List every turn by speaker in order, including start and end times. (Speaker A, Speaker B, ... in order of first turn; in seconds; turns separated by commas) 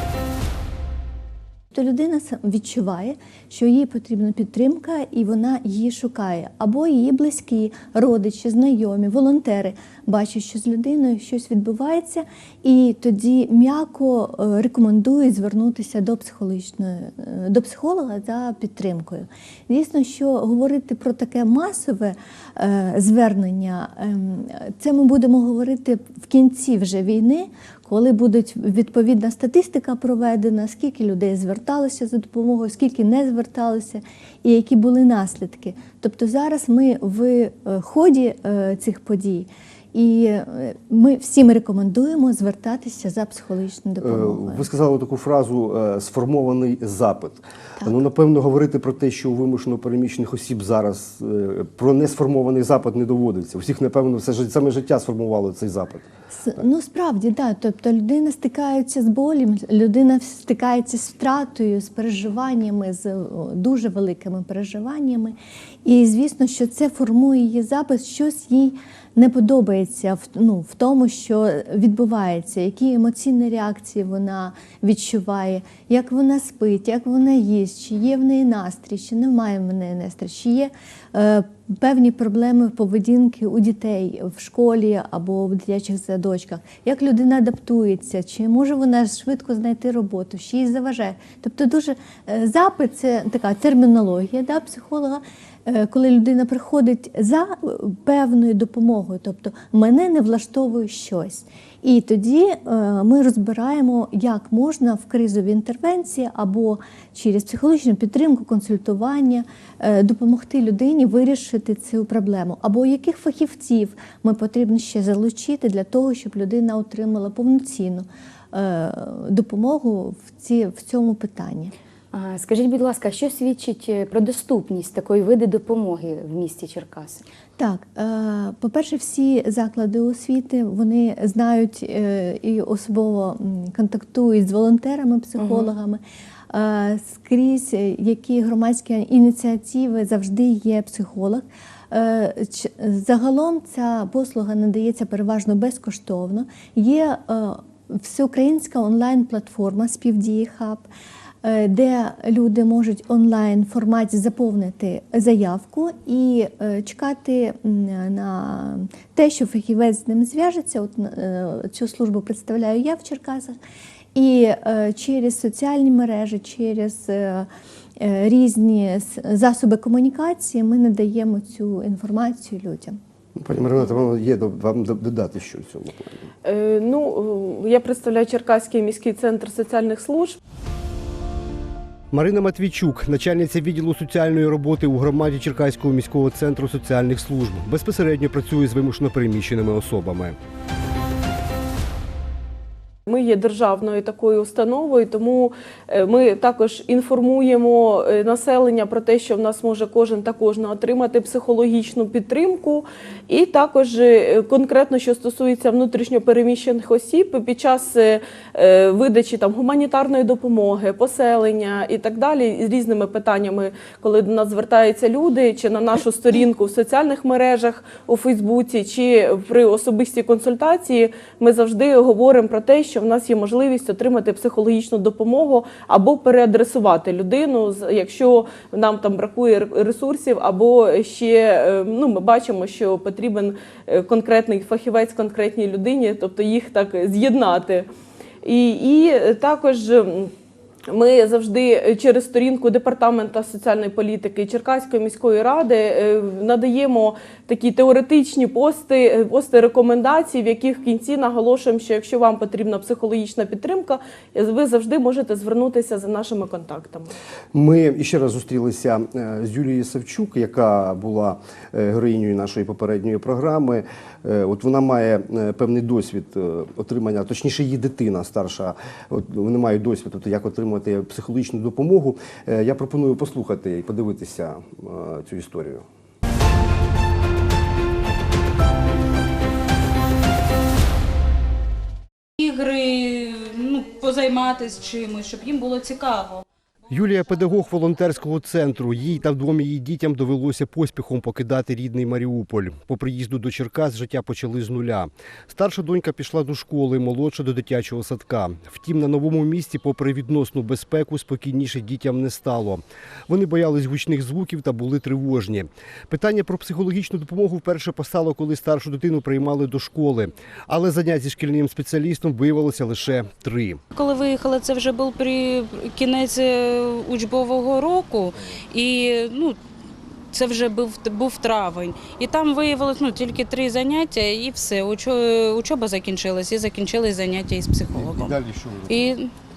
Speaker A: 1.7-44.7, Speaker B: 44.0-56.1, Speaker A: 56.3-121.7, Speaker C: 122.1-127.2, Speaker A: 127.6-150.9, Speaker C: 135.4-135.7, Speaker A: 151.4-163.6, Speaker A: 164.2-167.5, Speaker A: 168.0-173.0, Speaker B: 173.3-176.3, Speaker D: 176.4-180.4, Speaker B: 182.1-190.4, Speaker D: 193.1-237.9, Speaker D: 238.4-240.3, Speaker D: 240.9-257.1, Speaker B: 257.5-275.9, Speaker E: 282.4-286.4, Speaker B: 286.9-313.8, Speaker E: 313.9-319.6, Speaker E: 320.3-329.3, Speaker B: 327.9-329.2